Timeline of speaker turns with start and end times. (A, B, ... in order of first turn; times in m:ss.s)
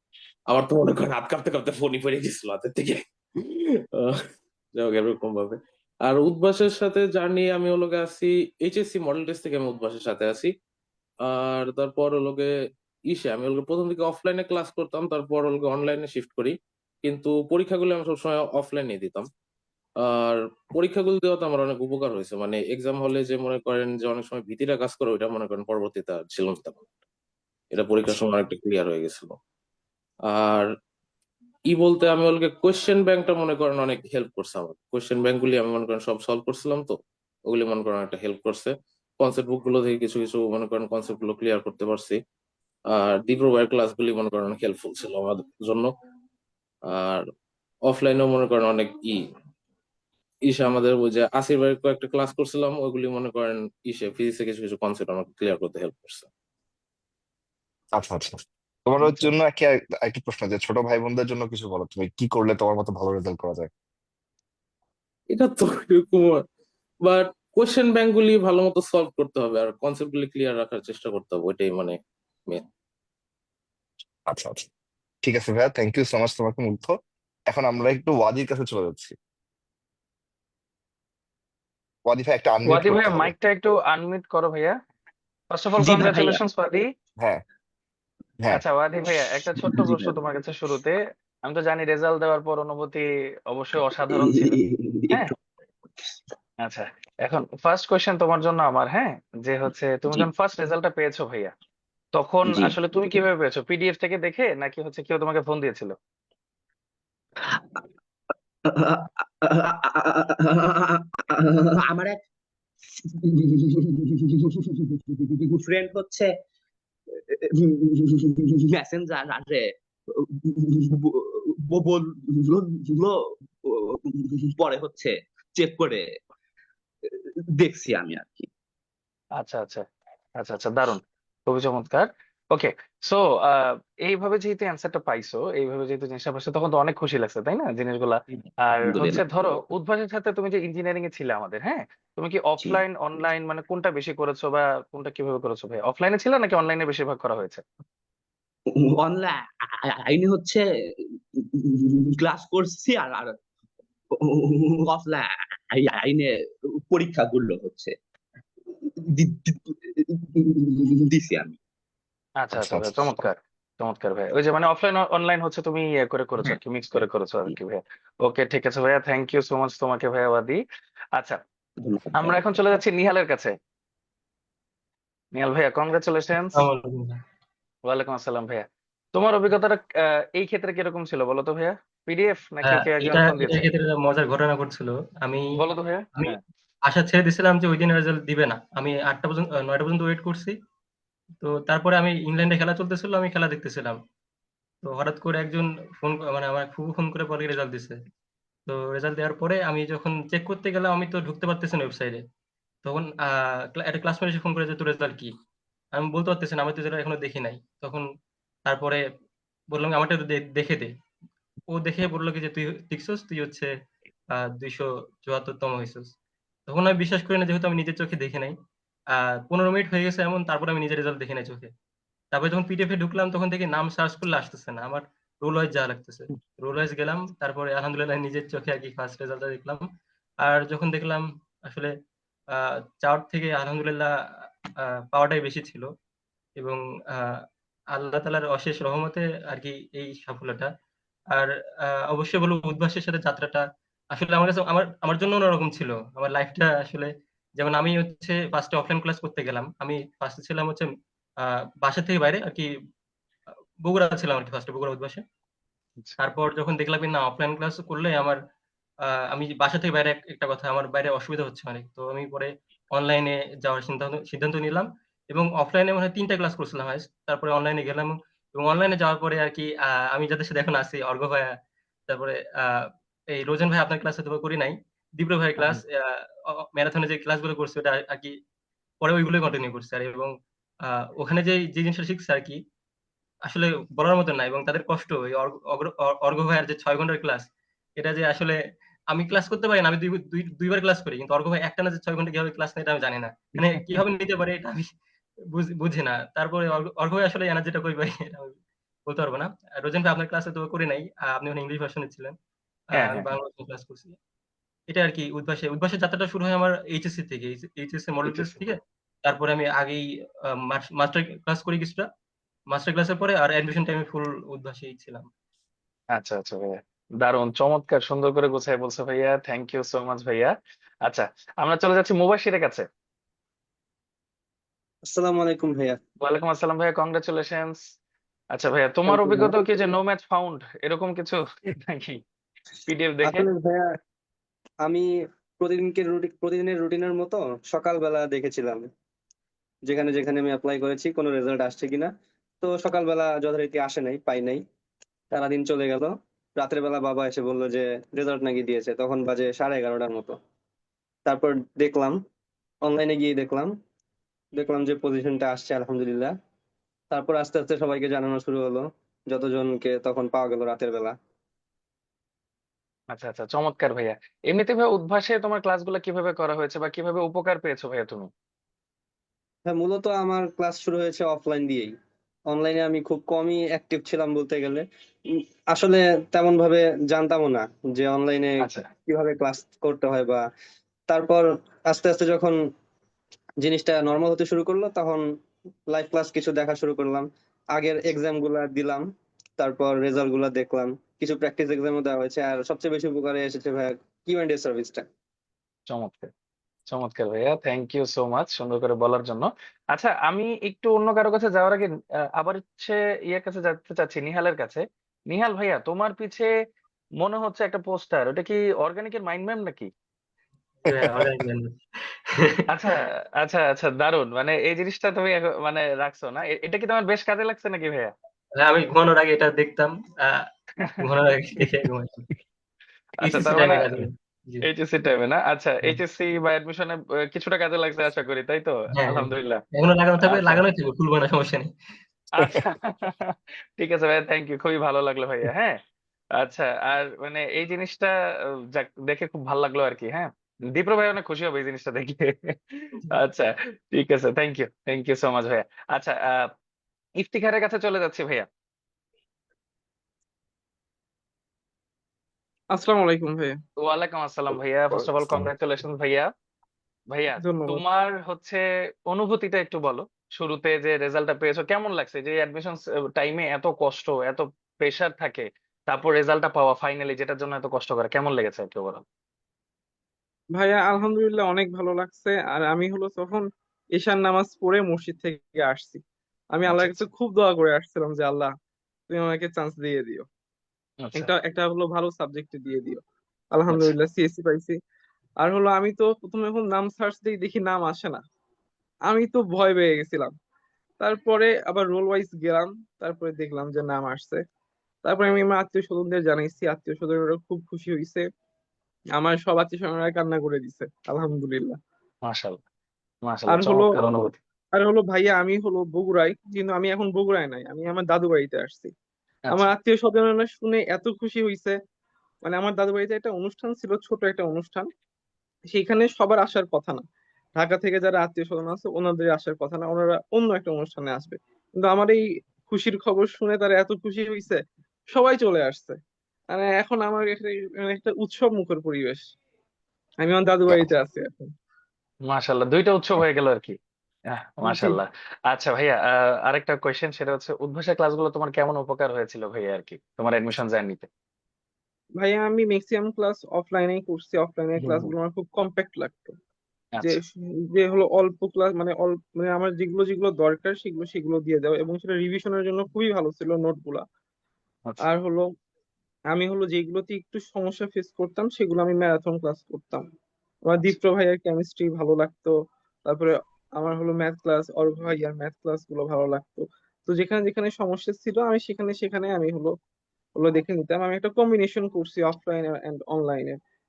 0:00.5-0:04.1 A
0:04.7-0:10.5 A
0:11.2-0:12.5 A
0:13.1-0:19.3 A
0:20.0-0:26.9 A
0:27.7-0:29.4 A
0:30.2-0:30.7 A
0:31.7-0:42.2 A
0:42.9-0:45.9 A
0:46.9-0:47.2 A
0:47.8-0:49.2 A
0:50.4-0:56.3 A
0:57.9-1:03.7 B
1:05.3-1:06.4 A
1:07.0-1:12.6 A
1:14.3-1:14.6 B
1:15.2-1:16.9 B
1:17.5-1:19.1 B
1:22.0-1:23.3 B
1:22.6-1:24.8 C
1:25.5-1:26.8 C
1:25.9-1:26.3 D
1:28.5-1:34.6 C
1:34.6-1:35.3 D
1:36.6-1:41.5 C
1:42.1-1:45.9 C
1:48.8-1:52.2 D
1:53.3-1:53.8 D
1:55.4-1:56.3 D
1:57.4-1:59.7 D
2:00.2-2:06.2 D
2:07.1-2:08.5 D
2:09.4-2:09.8 C
2:10.4-2:27.6 C
2:28.7-2:30.6 D
2:31.6-2:33.4 D
2:34.2-2:38.0 D
2:39.0-2:41.6 D
2:42.4-2:50.6 C
2:42.5-2:43.2 B
2:52.1-2:53.5 C
2:55.4-2:56.6 C
2:56.5-2:57.2 E
2:57.9-3:03.7 C
3:02.6-3:05.4 E
3:05.5-3:06.4 C
3:06.9-3:10.5 E
3:11.4-3:14.0 E
3:14.8-3:18.0 E
3:18.7-3:22.2 E
3:22.8-3:25.3 E
3:26.0-3:28.0 E
3:28.7-3:29.0 E
3:29.7-3:30.9 E
3:31.7-3:33.7 E
3:34.3-3:36.1 E
3:36.7-3:38.5 E
3:39.1-3:41.7 E
3:42.3-3:49.8 E
3:50.4-3:51.9 E
3:52.5-3:54.1 E
3:55.1-3:55.9 E
3:56.6-3:57.2 E
3:57.9-4:00.7 E
4:01.3-4:03.6 E
4:04.1-4:10.8 E
4:11.8-4:12.6 E
4:13.8-4:15.2 E
4:16.2-4:18.4 E
4:19.3-4:31.5 E
4:32.1-4:36.0 E
4:36.7-4:38.3 E
4:39.0-4:40.3 E
4:41.2-4:42.6 E
4:43.5-4:47.4 E
4:48.0-4:48.6 E
4:49.1-4:54.8 E
4:53.6-4:54.0 C
4:55.5-4:58.5 E
4:59.1-5:02.3 E
5:02.9-5:03.3 C
5:03.0-5:04.2 E
5:04.9-5:10.0 E
5:08.2-5:08.7 C
5:10.7-5:12.0 E
5:12.7-5:15.2 E
5:16.1-5:20.5 C
5:21.0-5:22.8 C
5:25.1-5:26.0 F
5:26.2-5:27.8 C
5:28.5-5:32.2 C
5:29.1-5:29.7 F
5:32.8-5:33.4 C
5:33.2-5:33.9 F
5:35.6-5:38.9 F
5:39.8-5:44.6 F
5:45.3-5:50.4 F
5:51.2-5:52.2 F
5:52.8-5:53.7 F
5:54.5-5:56.3 F
5:57.1-6:01.1 F
6:03.1-6:08.3 C
6:09.6-6:11.9 F
6:12.5-6:14.8 F
6:15.7-6:20.4 F
6:18.6-6:18.9 C
6:21.1-6:22.6 F
6:23.6-6:25.3 F
6:25.9-6:29.0 F
6:29.6-6:35.0 F
6:35.9-6:36.3 C
6:36.9-6:46.5 C
6:47.2-6:49.9 C
6:50.8-6:51.7 E
6:52.7-6:58.1 C
6:58.6-7:00.4 E
7:01.0-7:02.3 E
7:03.2-7:04.0 C
7:03.2-7:04.6 E
7:04.6-7:09.6 C
7:08.9-7:11.7 E
7:10.2-7:10.6 C
7:12.4-7:15.8 C
7:16.4-7:18.1 C
7:18.7-7:26.5 C
7:27.2-7:28.5 C
7:32.7-7:33.6 G
7:33.8-7:36.3 C
7:34.9-7:35.5 B
7:37.1-7:49.0 C
7:37.4-7:37.8 G
7:50.5-7:58.5 G
7:56.7-7:57.0 C
7:59.1-8:00.2 G
8:01.0-8:01.3 C
8:01.1-8:04.8 G
8:05.4-8:08.2 G
8:09.1-8:10.3 G
8:11.0-8:14.4 G
8:15.0-8:18.2 G
8:19.1-8:21.8 G
8:22.2-8:22.6 C
8:23.2-8:24.3 C
8:23.5-8:24.0 G
8:24.7-8:28.9 G
8:29.5-8:29.7 C
8:29.5-8:31.8 G
8:32.4-8:34.9 G
8:35.7-8:37.0 G
8:37.5-8:49.3 G
8:50.2-8:51.5 G
8:52.3-8:53.8 C
8:54.3-9:01.1 C
8:54.6-8:55.0 G
9:02.2-9:06.4 G
9:04.8-9:05.1 C
9:07.0-9:14.0 G
9:14.8-9:15.1 C
9:15.0-9:15.5 G
9:16.3-9:20.1 G
9:20.6-9:29.8 G
9:30.3-9:33.6 G